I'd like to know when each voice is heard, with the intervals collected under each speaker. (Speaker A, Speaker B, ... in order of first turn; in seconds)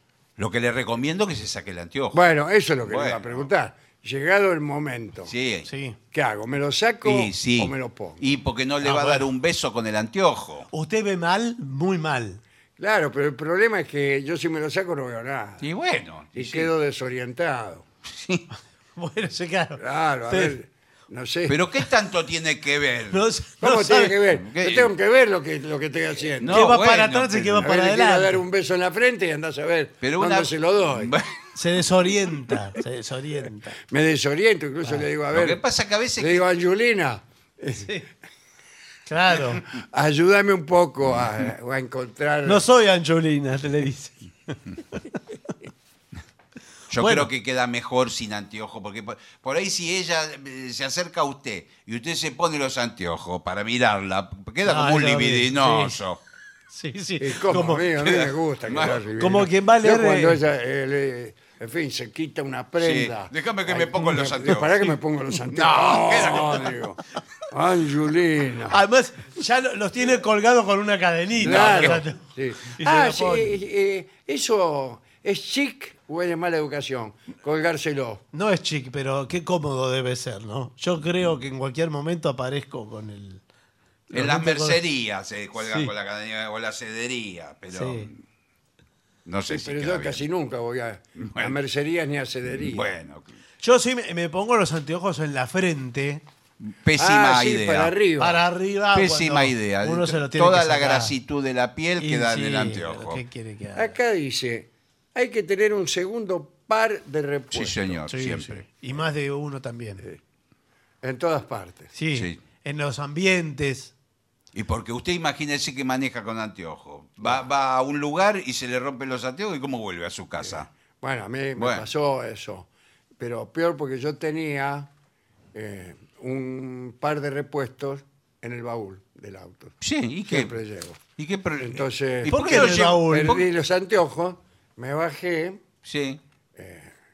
Speaker A: 0.4-2.2, 2.9-3.5, 5.3-5.7, 7.0-10.7, 15.6-16.7, 18.1-18.5, 21.5-23.2, 24.3-24.9, 26.4-27.6, 30.0-31.4, 35.3-36.5, 46.9-56.2, 58.0-59.0, 62.8-64.8, 65.5-66.8, 71.4-72.0, 84.1-88.2, 89.3-90.2, 91.2-91.6, 92.6-93.4, 96.6-97.9, 98.9-103.2, 107.5-108.6, 114.5-120.7, 121.6-121.9, 129.8-130.5, 131.2-133.5, 135.8-136.2
Speaker B: 2.1-5.3, 6.1-8.2, 12.8-15.7, 16.3-17.9, 19.8-21.6, 23.6-26.7, 27.6-31.1, 33.9-35.6, 36.2-37.9, 39.7-42.6, 57.2-68.8, 71.4-78.2, 89.5-92.9, 97.0-98.4, 103.8-108.0, 111.0-111.9, 120.5-122.7, 123.2-124.9, 125.5-131.0, 131.6-135.6, 136.6-136.9
Speaker C: 5.7-6.0, 8.8-9.3, 10.7-12.4, 19.0-20.6, 23.1-24.2, 26.5-28.4, 31.6-33.8, 37.7-38.1, 39.1-39.6, 42.5-45.1, 47.0-47.3, 54.6-56.0, 56.7-57.9, 59.2-60.4, 68.7-73.5, 78.3-83.4, 84.1-84.8, 85.6-85.9, 87.7-88.1, 93.6-96.2, 98.2-101.1, 102.0-104.0, 108.1-110.0, 111.9-113.9, 132.3-133.4